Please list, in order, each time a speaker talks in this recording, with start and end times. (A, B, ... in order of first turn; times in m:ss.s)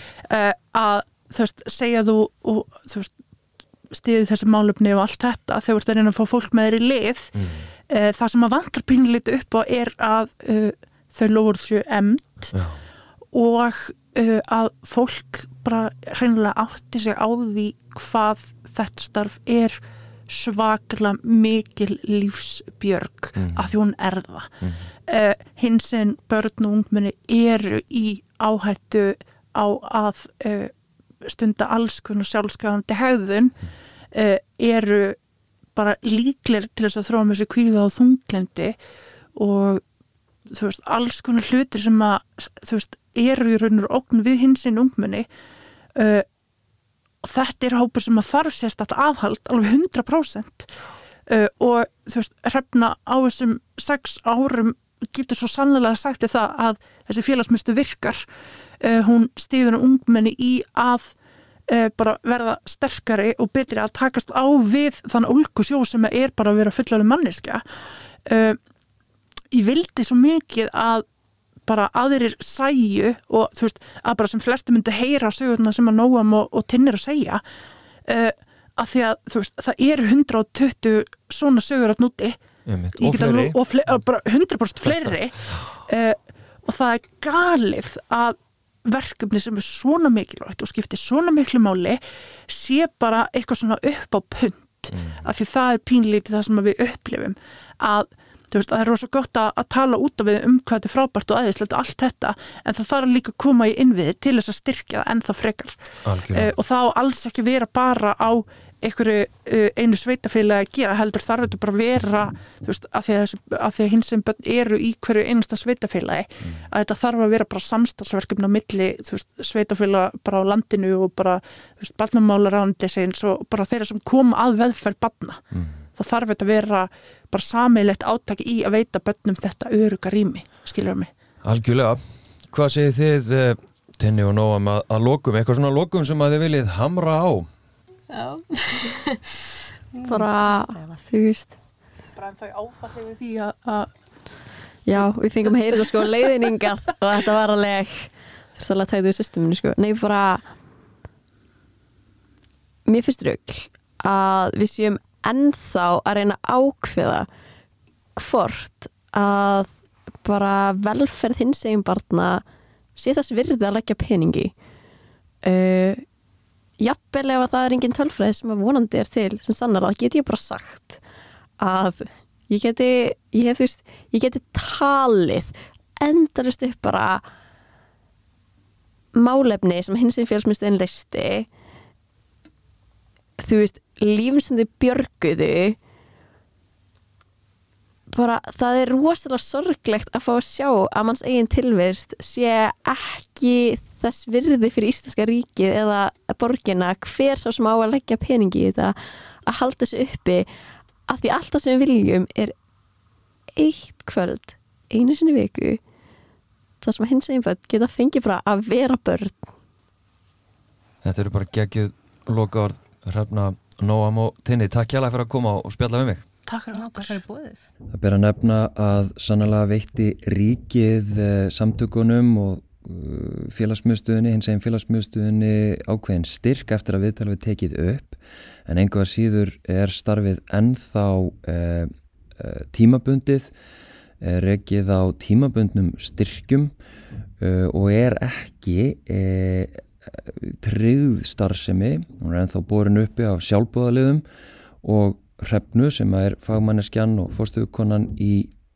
0:00.2-0:03.1 A
0:03.9-0:07.3 A
0:07.3-0:07.7 B
0:07.9-0:12.5 A
0:12.5-0:12.8 B
0:13.3-0:30.7 A
0:23.4-0:23.7 B
0:31.2-0:33.6 A
0:34.1-0:35.2 A
0:35.7-0:38.8 A
0:39.3-0:39.8 A
0:40.5-0:45.3 A
0:46.0-0:46.2 A
0:47.2-0:50.7 A
0:51.3-0:58.2 A
0:58.8-1:01.1 A
1:01.7-1:07.6 A
1:08.3-1:08.6 A
1:09.5-1:11.0 A
1:11.6-1:17.4 A
1:18.1-1:22.4 A
1:22.6-1:23.6 B
1:23.0-1:45.8 A
1:46.0-1:46.5 B
1:46.3-2:05.4 A
2:06.0-2:11.1 A
2:11.4-2:17.5 B
2:18.1-2:21.0 C
2:20.0-2:21.6 D
2:22.2-2:23.9 A
2:24.8-2:30.4 D
2:32.8-2:37.3 D
2:38.2-2:39.7 D
2:40.2-2:42.4 D
2:43.0-2:44.5 D
2:45.4-2:46.0 D
2:46.8-2:51.0 D
2:51.6-2:57.2 D
2:59.1-3:01.5 D
3:03.4-3:05.8 D
3:08.1-3:20.5 D
3:21.1-3:22.5 D
3:23.6-3:25.8 D
3:26.8-3:29.5 D
3:31.0-3:36.2 B
3:36.5-3:37.2 A
3:36.7-3:37.7 C
3:37.9-3:53.5 B
3:54.2-3:56.7 B
3:57.4-4:04.2 B
4:04.8-4:08.5 B